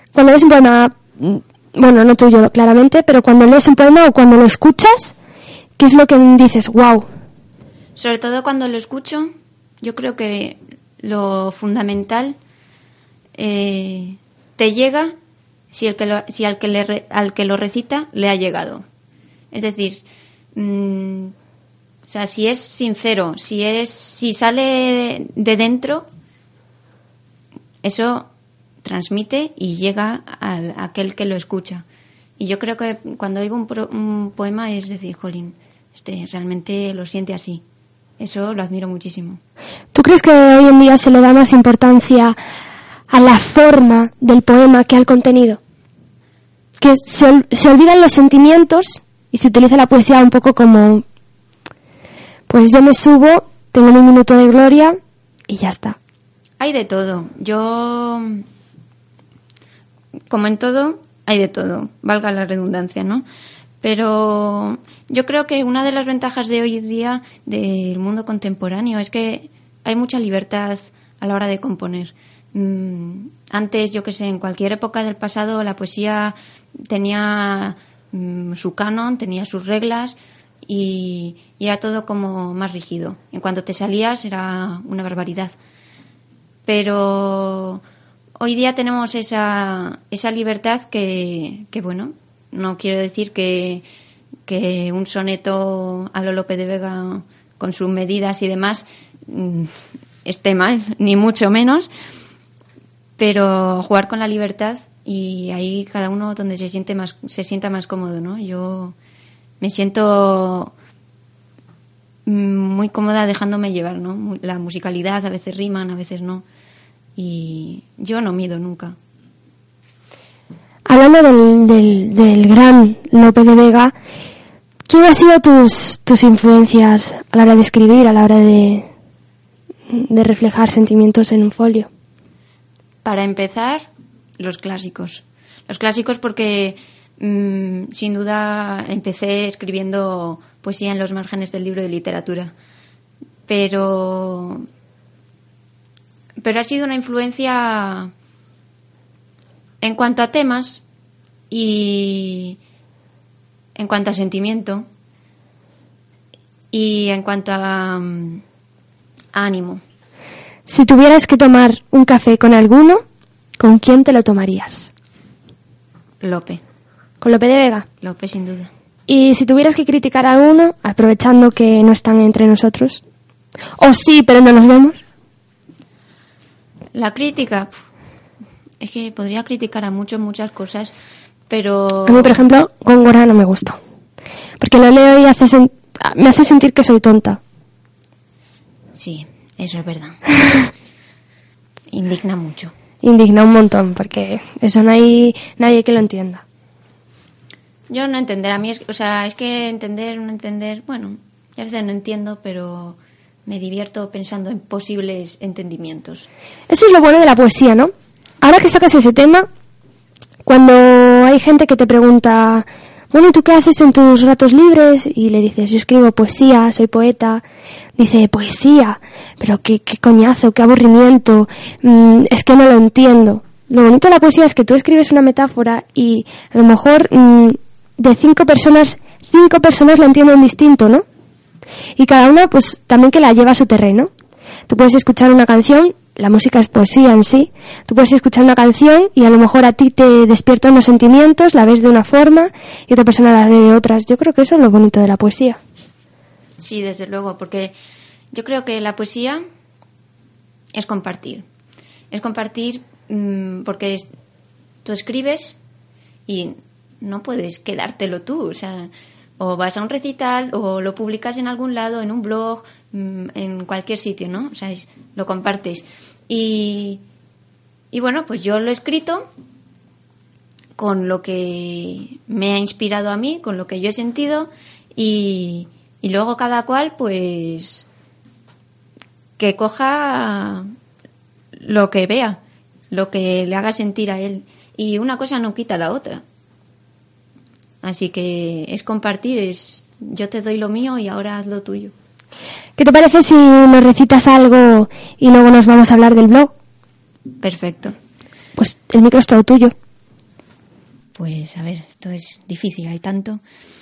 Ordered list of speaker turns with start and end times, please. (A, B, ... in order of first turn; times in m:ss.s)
0:00.1-0:05.1 A
0:05.8-0:07.1 A
0:08.0-0:12.4 B
0:13.4-0:15.1 B
0:15.7-0:18.8 B
0:19.5-0:21.3 B
0:22.1-0:26.1 B
0:27.8-0:28.3 B
0:28.8-0:31.8 B
0:32.4-0:37.6 B
0:38.2-0:39.4 B
0:39.9-0:42.4 A
0:43.1-0:45.6 A
0:46.8-0:51.0 A
0:52.5-0:56.0 A
0:56.6-0:58.4 B
1:00.3-1:03.2 B
1:03.8-1:25.5 B
1:26.7-1:27.8 B
1:28.4-1:33.8 B
1:34.5-1:39.7 B
1:40.2-1:41.9 B
1:43.2-1:48.9 B
1:49.6-1:50.7 B
1:52.3-1:56.4 B
1:57.2-1:59.0 B
2:00.8-2:03.9 A
2:04.9-2:08.9 A
2:09.9-2:11.9 A
2:13.0-2:13.9 B
2:14.4-2:22.5 B
2:23.5-2:24.6 B
2:26.4-2:28.1 B
2:29.8-2:30.8 B
2:31.5-2:32.6 B
2:33.8-2:34.9 B
2:36.7-2:38.4 B
2:39.3-2:39.8 B
2:40.7-2:43.0 A
2:43.6-2:44.9 A
2:46.2-2:46.6 B
2:47.2-2:47.8 A
2:48.0-2:48.7 B
2:49.1-2:53.0 A
2:53.8-2:55.0 A
2:56.9-2:57.8 B
2:58.8-3:00.9 B
3:01.5-3:02.4 B
3:02.0-3:03.8 A
3:04.6-3:07.4 A
3:09.0-3:10.2 B
3:11.9-3:12.7 B
3:13.0-3:16.4 A
3:17.9-3:26.3 B
3:26.7-3:29.5 A
3:30.4-3:37.4 A
3:38.0-3:51.0 A
3:52.0-3:54.1 A
3:54.7-4:05.6 A
4:06.6-4:07.7 B
4:08.3-4:09.4 B
4:10.7-4:11.4 B
4:12.1-4:14.1 B
4:14.8-4:15.6 B
4:16.3-4:27.0 B
4:27.9-4:29.3 B
4:30.8-4:37.8 B
4:39.4-4:40.7 B
4:41.6-4:42.4 B
4:42.9-4:46.2 B
4:47.8-4:51.9 B
4:52.8-4:56.5 A
4:57.4-4:57.9 B
4:58.6-4:59.7 A
5:01.2-5:03.4 B